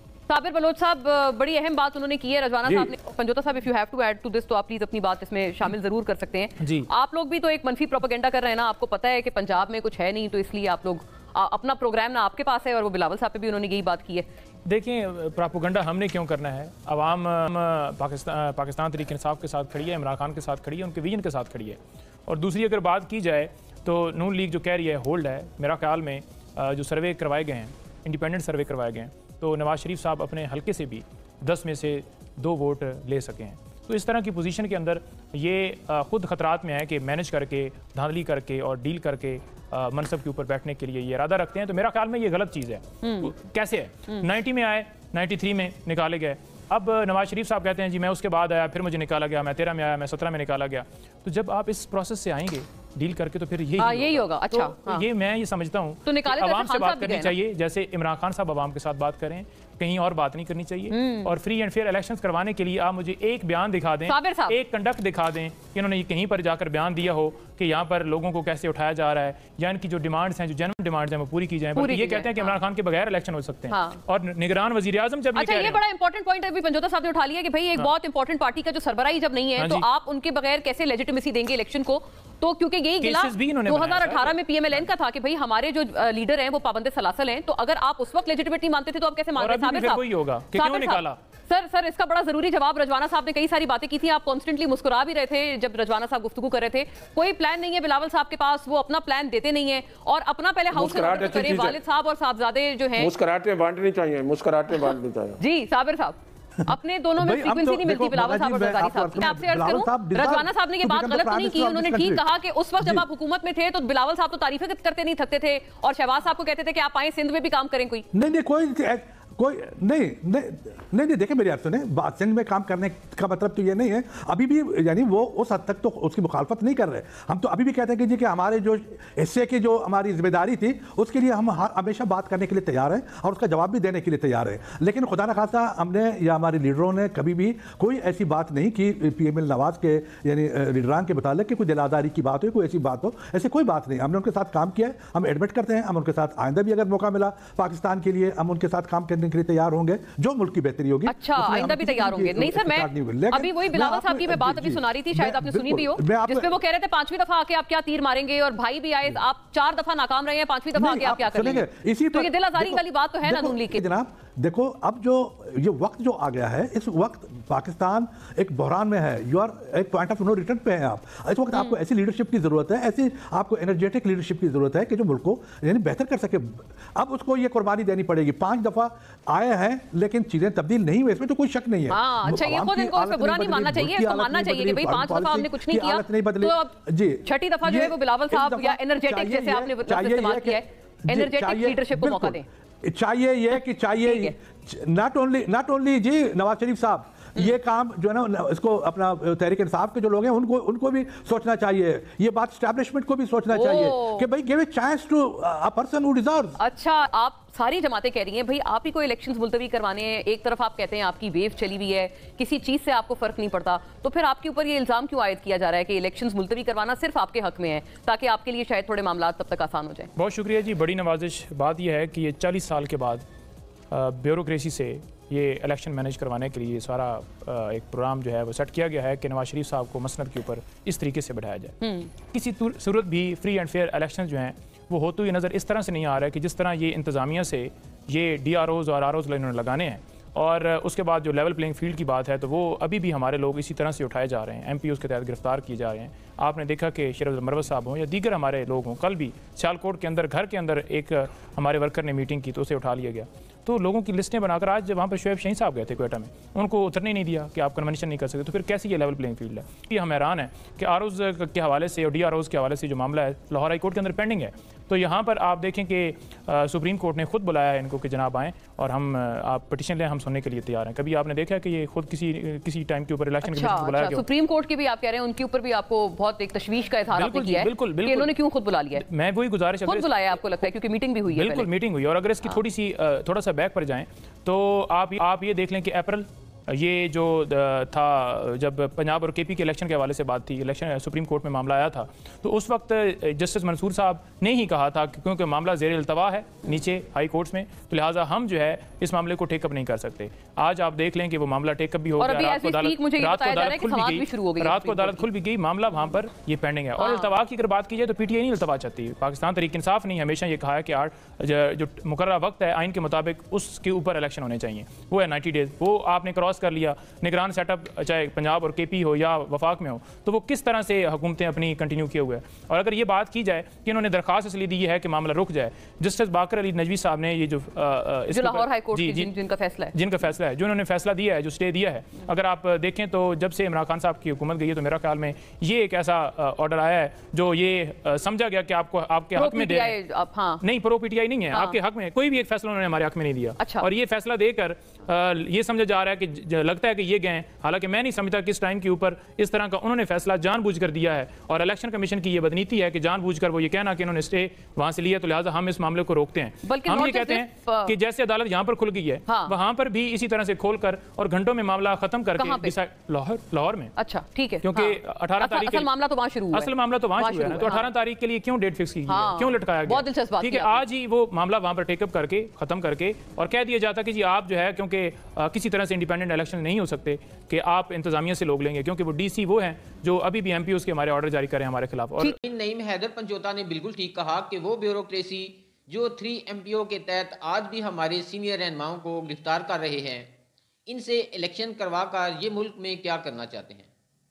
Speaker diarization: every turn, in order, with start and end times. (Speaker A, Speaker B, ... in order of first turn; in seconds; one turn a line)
Speaker A: 0.3-14.3
Speaker B: 2.6-2.9
Speaker C: 6.6-6.9
Speaker C: 14.6-75.8
Speaker A: 43.0-43.3
Speaker A: 53.8-55.0
Speaker A: 56.0-57.3
Speaker A: 60.9-61.3
Speaker A: 64.1-64.5
Speaker A: 71.8-72.6
Speaker A: 73.7-74.0
Speaker A: 75.3-103.1
Speaker C: 79.6-79.8
Speaker C: 83.0-84.9
Speaker C: 89.3-91.2
Speaker B: 100.7-101.8
Speaker B: 103.0-105.4
Speaker A: 104.7-118.0
Speaker D: 107.2-112.2
Speaker D: 112.8-113.0
Speaker D: 118.1-156.5
Speaker A: 151.1-163.8
Speaker D: 160.7-206.6
Speaker A: 181.9-192.4
Speaker A: 194.0-194.3
Speaker A: 203.5-204.3
Speaker A: 206.6-220.1
Speaker C: 220.2-223.2
Speaker C: 223.9-231.8
Speaker A: 231.8-232.1
Speaker C: 232.3-274.2
Speaker A: 273.4-279.1
Speaker C: 277.1-278.4
Speaker C: 278.9-280.1
Speaker A: 279.9-281.7
Speaker C: 281.3-329.3
Speaker A: 302.2-305.2
Speaker A: 307.0-307.3
Speaker A: 328.3-329.9
Speaker C: 329.9-340.0
Speaker A: 339.4-340.6
Speaker C: 340.6-363.9
Speaker A: 341.5-341.8
Speaker A: 343.6-343.9
Speaker A: 356.6-357.9
Speaker A: 359.3-359.5
Speaker A: 362.4-362.7
Speaker A: 363.9-367.9
Speaker C: 364.6-365.9
Speaker C: 366.5-382.4
Speaker A: 369.1-370.8
Speaker E: 382.4-390.3
Speaker E: 390.9-393.9